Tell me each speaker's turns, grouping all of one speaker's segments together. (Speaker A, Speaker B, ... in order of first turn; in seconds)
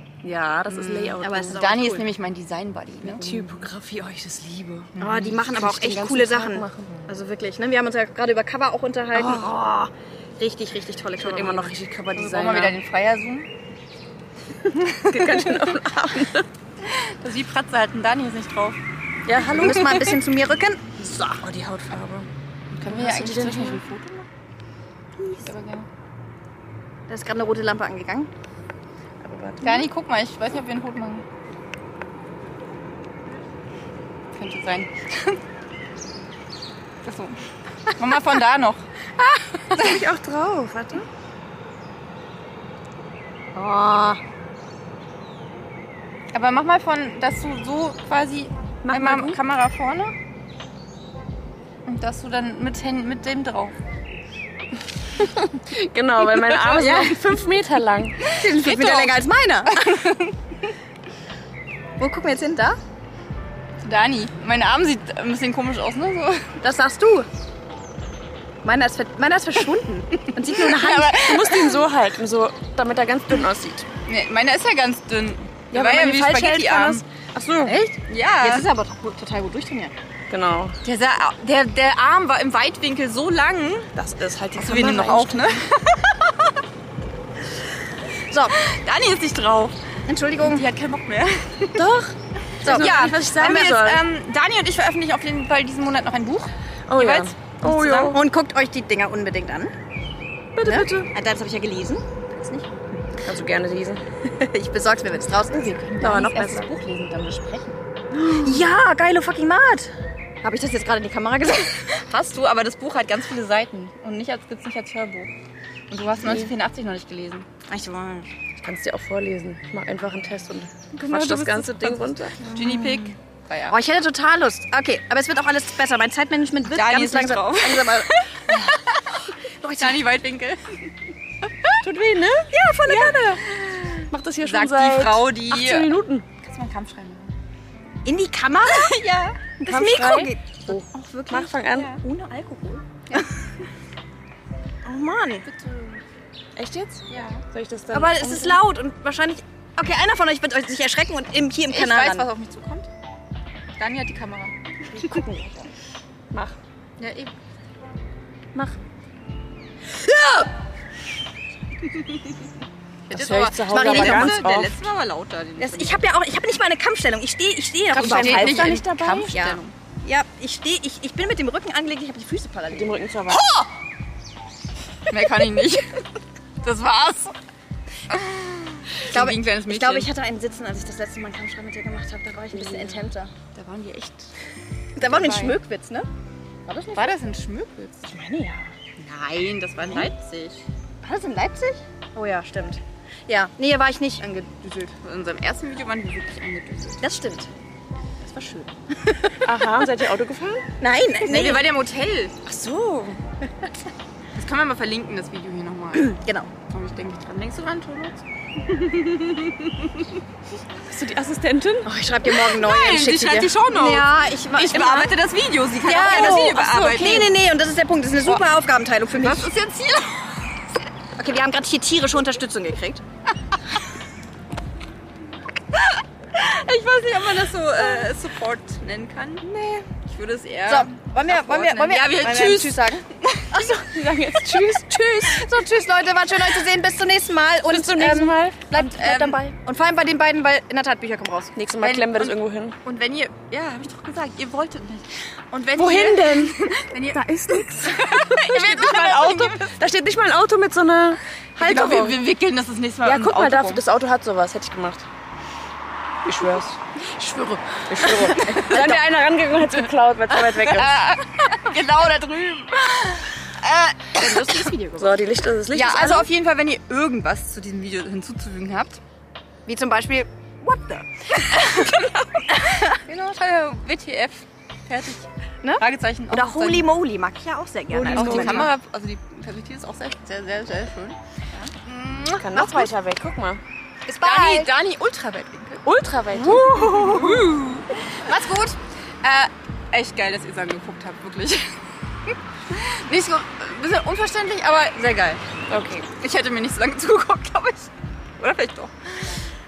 Speaker A: 0.2-1.6, 3.0-6.9, 9.1-9.6, 11.2-12.8, 14.9-16.5, 19.2-20.0, 21.0-22.3, 22.9-23.8, 29.2-29.9, 39.7-41.0, 48.8-49.4, 55.4-58.2, 71.0-73.9, 77.4-77.8, 80.3-80.8, 84.0-85.4, 91.8-94.0, 96.9-98.2, 100.5-101.1, 103.2-104.0, 106.0-106.7, 118.6-122.5, 131.8-132.5, 133.9-136.2, 139.6-142.0, 146.6-148.6, 156.3-156.6, 163.1-164.8, 167.9-169.3, 172.7-173.4, 199.4-200.7, 202.4-203.2, 210.9-211.9, 216.2-216.7, 229.4-229.9, 233.5-235.5, 237.7-238.6, 241.5-242.8, 245.7-252.2, 253.0-255.1, 256.2-256.8, 257.8-261.0, 264.9-266.3, 277.9-278.7, 282.4-283.6, 285.8-287.4, 295.7-296.1
Speaker B: 0.7-3.5, 5.0-5.4, 12.1-13.5, 14.8-15.5, 16.8-18.8, 19.4-20.2, 22.7-24.3, 25.3-25.9, 29.6-31.2, 34.3-35.4, 37.0-37.4, 37.9-38.8, 39.7-40.0, 46.3-50.1, 51.9-53.7, 56.5-57.4, 58.2-59.2, 59.7-60.3, 63.8-66.5, 70.4-71.8, 74.0-77.0, 78.0-78.7, 80.8-83.9, 84.5-86.5, 88.5-89.7, 90.4-91.9, 92.6-98.2, 105.5-107.8, 111.9-115.3, 115.9-117.5, 120.9-123.8, 126.7-129.0, 129.7-130.9, 132.9-137.3, 138.7-139.4, 141.7-142.0, 145.4-146.0, 147.1-147.4, 151.7-152.9, 153.8-154.5, 157.0-157.3, 163.1-166.0, 167.9-169.7, 173.3-173.7, 175.1-175.8, 176.6-177.3, 178.1-180.1, 182.6-184.3, 184.9-185.6, 186.9-188.1, 189.0-190.6, 195.0-197.0, 201.2-202.3, 204.3-206.2, 206.7-210.2, 212.3-217.3, 219.1-220.6, 226.3-233.7, 238.7-239.5, 241.8-249.7, 251.6-253.8, 257.1-259.0, 260.3-264.7, 265.7-269.0, 271.4-275.3, 275.8-276.9, 278.1-281.2, 281.8-282.9, 284.1-291.6, 292.7-295.4, 296.2-299.4
Speaker C: 1.2-2.1, 5.0-11.7, 19.6-20.9, 27.1-28.3, 43.5-44.2, 58.3-60.0, 62.0-62.8, 66.6-67.3, 68.6-71.2, 75.7-79.9, 88.3-88.5, 90.1-90.6, 92.6-93.0, 98.1-99.7, 100.6-102.7, 104.3-105.8, 108.1-109.9, 110.4-111.8, 117.7-118.3, 122.5-123.1, 123.7-128.6, 129.6-130.0, 132.5-133.4, 138.0-138.9, 139.6-143.3, 144.8-145.4, 147.9-152.3, 154.9-155.7, 160.0-160.5, 163.7-164.4, 165.6-172.9, 179.0-183.3, 185.0-186.1, 186.7-187.2, 188.1-188.7, 191.0-194.9, 197.0-197.5, 198.2-199.4, 200.8-201.7, 205.9-206.5, 211.8-215.1, 215.8-219.5, 221.2-223.0, 230.7-233.0, 235.2-241.5, 264.2-265.2, 269.6-271.9, 272.5-272.8, 275.6-278.6, 284.2-284.7, 286.8-287.4